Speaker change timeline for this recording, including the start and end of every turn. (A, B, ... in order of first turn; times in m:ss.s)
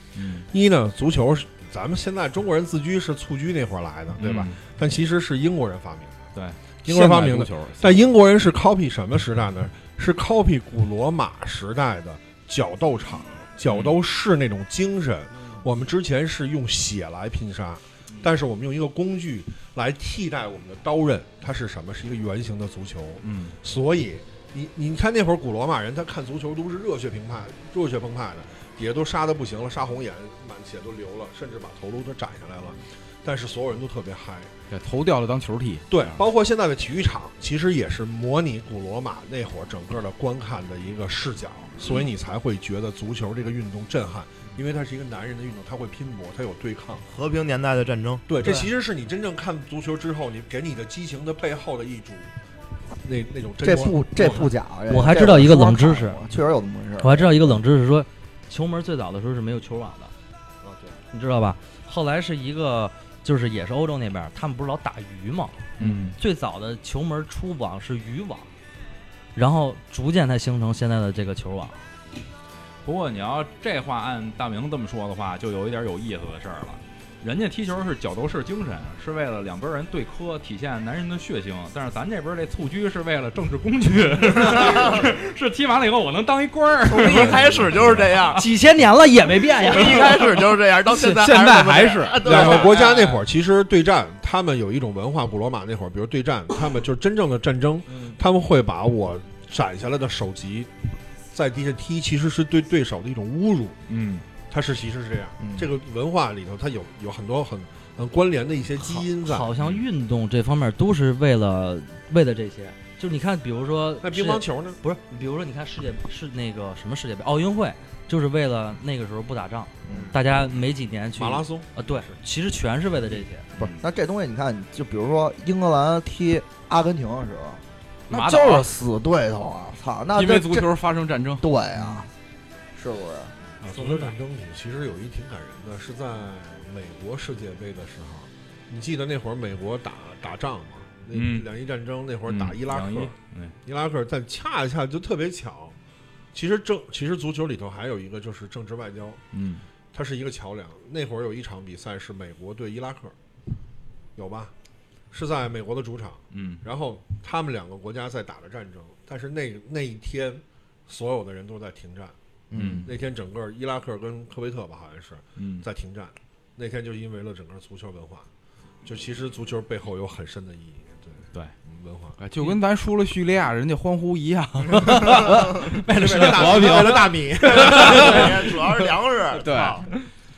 0:00.2-0:00.5 A
0:00.5-0:06.2 B
0:04.2-0:04.6 A
0:06.8-0:08.0 C
0:06.8-0:34.5 B
0:13.7-0:14.0 A
0:23.2-0:23.6 A
0:34.7-0:36.2 C
0:35.9-0:47.0 B
0:47.1-0:48.2 D
0:48.3-0:52.3 B
0:48.4-0:48.7 E
0:53.0-0:54.5 B
0:53.6-0:57.6 F
0:54.9-0:56.2 E
0:57.0-1:00.1 E
1:01.1-1:08.5 E
1:05.8-1:06.2 A
1:09.4-1:11.8 E
1:12.8-1:28.4 A
1:24.4-1:25.1 D
1:26.9-1:28.4 D
1:28.4-1:30.3 E
1:29.6-1:33.1 D
1:30.9-1:33.2 C
1:32.2-1:40.7 B
1:41.3-1:43.8 B
1:43.9-1:44.2 A
1:44.5-1:49.5 B
1:45.4-1:45.7 F
1:48.8-2:03.5 E
1:54.0-1:54.8 B
1:59.9-2:00.1 F
1:59.9-2:00.2 D
2:01.2-2:02.1 B
2:03.6-2:10.7 F
2:08.1-2:08.7 C
2:08.2-2:08.6 A
2:10.1-2:11.4 C
2:11.4-2:12.1 F
2:12.8-2:13.4 F
2:13.6-2:25.8 B
2:13.7-2:14.1 E
2:21.1-2:21.5 A
2:22.3-2:23.5 A
2:26.3-2:29.2 B
2:29.3-2:29.6 A
2:29.9-2:33.1 B
2:34.2-2:34.5 B
2:35.1-2:42.2 B
2:36.3-2:36.6 A
2:42.5-2:42.9 F
2:42.6-2:42.9 A
2:42.8-2:48.3 B
2:45.4-2:45.7 A
2:48.8-2:52.2 B
2:52.2-2:58.5 C
2:55.9-2:58.3 B
2:56.0-2:57.0 A
2:57.6-2:58.1 A
2:57.7-2:59.9 D
2:59.3-2:59.8 C